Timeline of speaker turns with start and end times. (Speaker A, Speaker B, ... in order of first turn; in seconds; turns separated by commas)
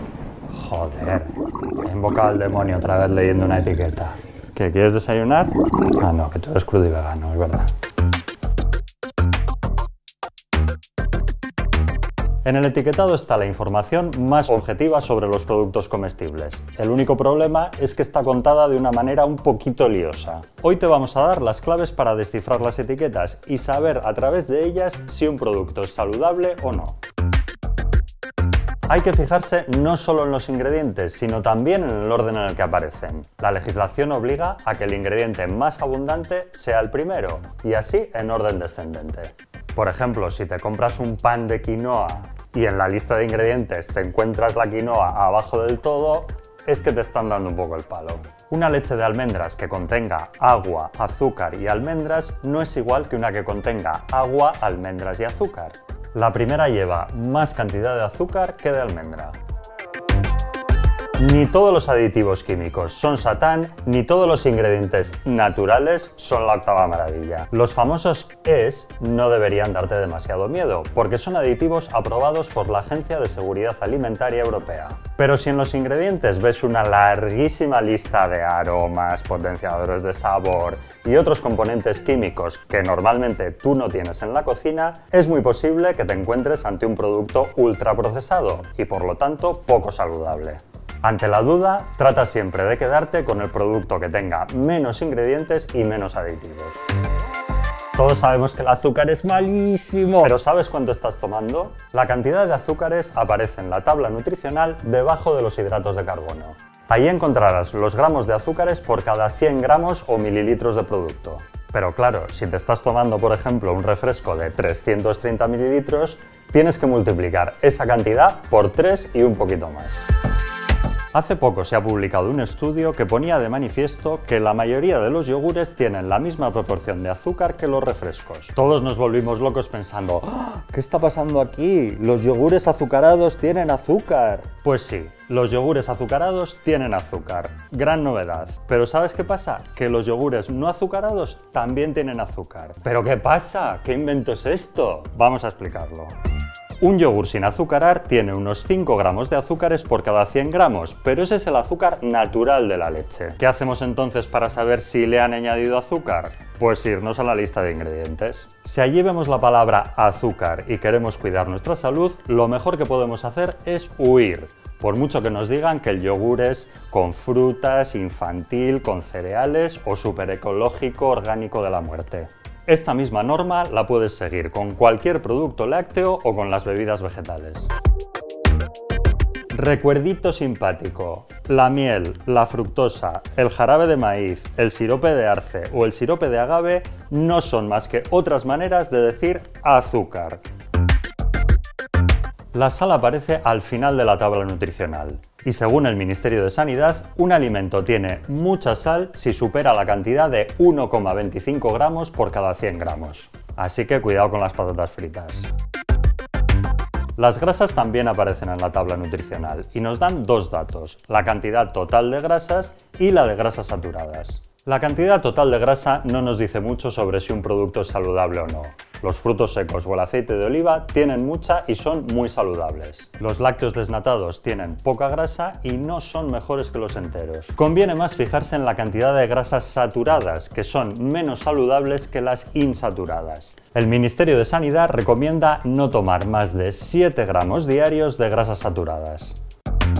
Speaker A: 0.5-7.7, Speaker A: 12.4-27.0, Speaker A: 28.9-59.4, Speaker A: 61.2-96.8, Speaker A: 98.0-120.0, Speaker A: 121.1-146.2, Speaker A: 146.8-177.7, Speaker A: 179.5-190.4, Speaker A: 192.5-205.5, Speaker A: 207.2-239.4